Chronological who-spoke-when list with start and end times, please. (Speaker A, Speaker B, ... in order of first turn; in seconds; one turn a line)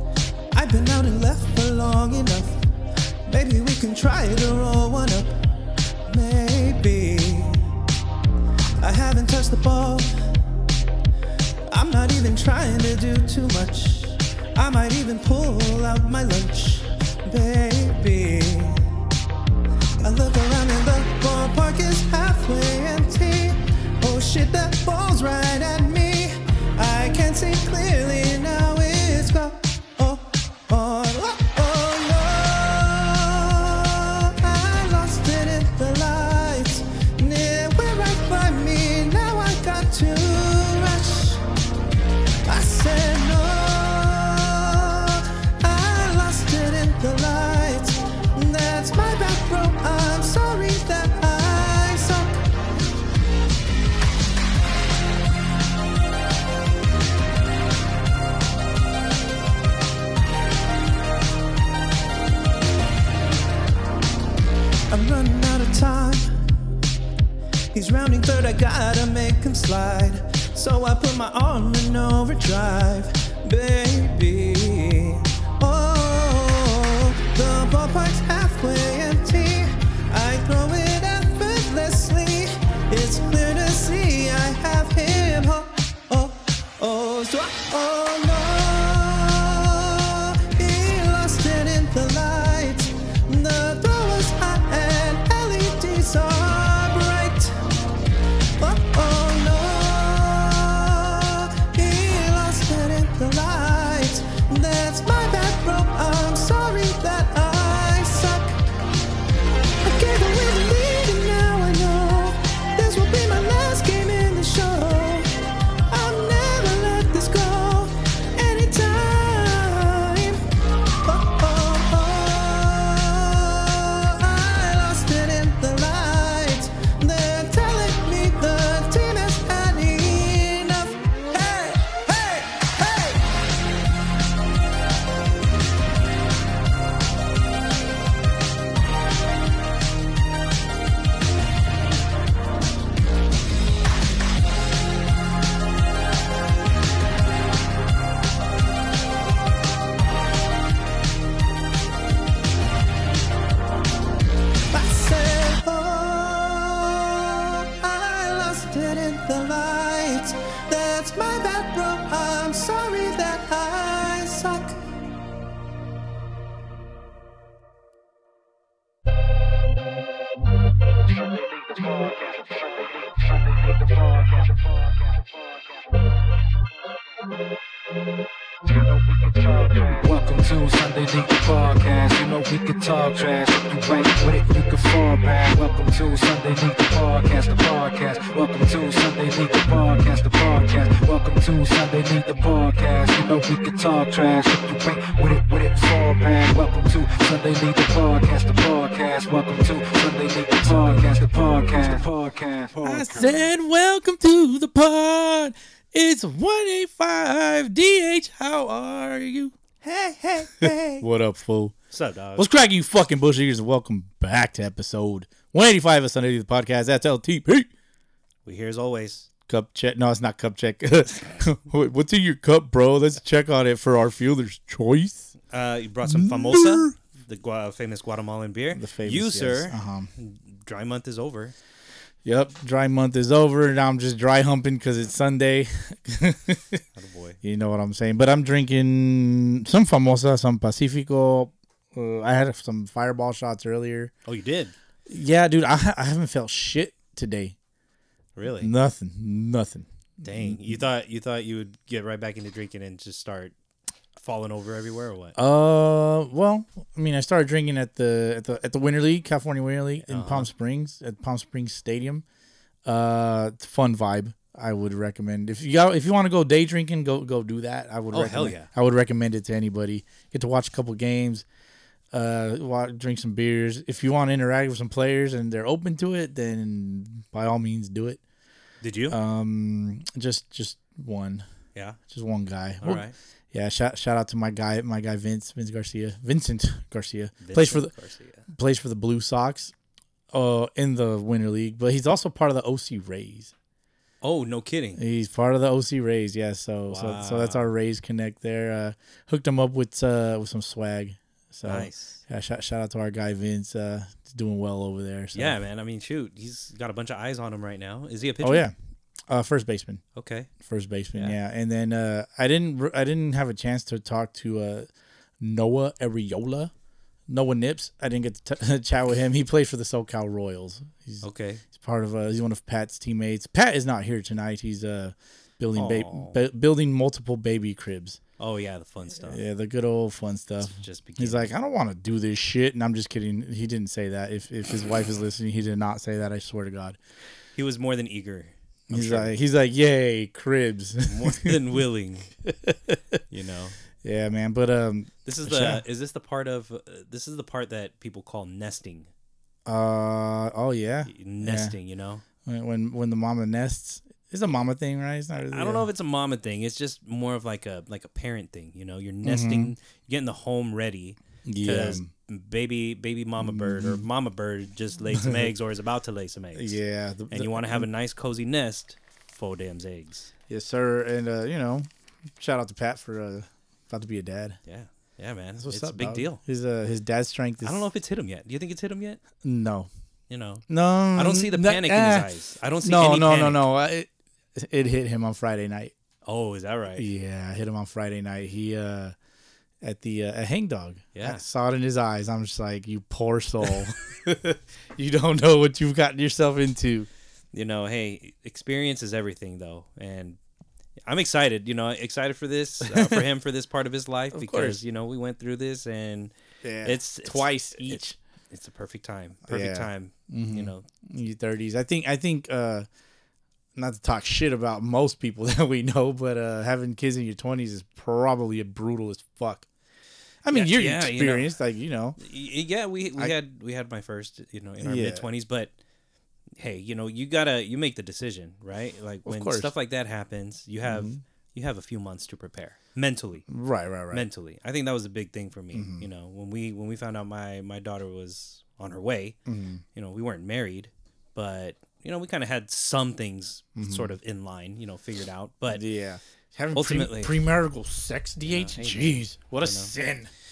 Speaker A: 0.5-2.7
Speaker A: 3.3-5.4
Speaker A: 6.0-7.7
Speaker A: 8.8-10.3
Speaker A: 11.7-18.8
Speaker A: 20.0-41.5
Speaker A: 42.5-52.4
Speaker A: 64.9-66.4
Speaker A: 67.7-97.7
Speaker A: 98.6-108.6
Speaker A: 109.8-115.3
Speaker A: 115.9-120.4
Speaker A: 121.0-133.2
Speaker A: 154.7-164.8
Speaker B: 171.4-175.4
Speaker B: 178.7-203.5
Speaker C: 202.8-209.6
Speaker A: 209.8-211.0
Speaker C: 211.0-211.8
Speaker D: 211.9-212.5
Speaker C: 212.4-217.7
Speaker D: 218.4-219.3
Speaker C: 219.5-225.3
Speaker D: 225.5-231.6
Speaker C: 226.0-226.9
Speaker C: 228.7-230.1
Speaker C: 232.2-236.8
Speaker D: 236.9-237.4
Speaker C: 237.4-244.1
Speaker D: 244.3-244.7
Speaker C: 245.1-247.6
Speaker D: 248.4-248.7
Speaker C: 248.5-250.8
Speaker D: 250.2-253.6
Speaker D: 254.2-255.4
Speaker C: 255.4-262.2
Speaker D: 260.1-260.5
Speaker C: 262.9-271.4
Speaker D: 268.1-268.7
Speaker C: 272.1-278.2
Speaker D: 278.8-279.2
Speaker C: 279.1-281.4
Speaker C: 282.1-287.9
Speaker D: 282.8-283.2
Speaker D: 287.4-288.4
Speaker C: 288.5-289.7
Speaker C: 290.3-293.5
Speaker D: 294.2-295.0
Speaker C: 295.0-305.6
Speaker D: 296.9-297.7
Speaker D: 301.7-302.2
Speaker D: 305.3-308.7
Speaker C: 308.4-308.7
Speaker C: 309.3-310.0
Speaker D: 310.1-310.5
Speaker C: 310.6-314.9
Speaker C: 315.4-316.7
Speaker C: 317.3-328.2
Speaker D: 321.2-321.6
Speaker D: 325.8-326.4
Speaker D: 328.4-329.4
Speaker C: 329.2-337.0
Speaker D: 330.6-331.5
Speaker D: 337.6-339.3
Speaker C: 338.9-341.6
Speaker D: 341.0-342.3
Speaker C: 342.4-343.2
Speaker D: 343.3-343.8
Speaker C: 344.0-345.8
Speaker D: 345.3-349.1
Speaker C: 349.7-351.8
Speaker D: 351.1-352.2
Speaker C: 352.4-355.9
Speaker D: 355.4-366.8
Speaker C: 359.2-359.8
Speaker C: 361.4-362.1
Speaker C: 363.4-364.1
Speaker C: 365.1-365.5
Speaker C: 366.5-367.9
Speaker D: 367.3-370.3
Speaker C: 370.5-374.6
Speaker D: 374.7-376.4
Speaker C: 375.6-377.8
Speaker D: 377.6-379.2
Speaker C: 379.4-379.9
Speaker D: 380.3-383.6
Speaker C: 380.7-382.3
Speaker C: 382.8-385.9
Speaker D: 386.2-387.1
Speaker C: 387.0-389.1
Speaker C: 389.8-397.1
Speaker D: 391.1-391.4
Speaker D: 397.5-400.4
Speaker D: 401.1-410.9
Speaker C: 402.8-403.3
Speaker C: 404.3-404.8
Speaker C: 406.6-408.2
Speaker C: 409.5-412.9
Speaker C: 413.8-419.7
Speaker C: 420.4-422.2
Speaker D: 420.5-421.5
Speaker D: 422.2-425.7
Speaker C: 424.8-425.3
Speaker D: 426.6-433.4
Speaker C: 429.2-429.7
Speaker C: 430.8-431.2
Speaker C: 433.5-434.3
Speaker D: 434.1-439.4
Speaker C: 435.7-436.1
Speaker C: 439.5-439.8
Speaker D: 439.9-445.8
Speaker C: 443.8-444.1
Speaker C: 445.7-450.3
Speaker D: 446.7-447.3
Speaker D: 448.4-449.9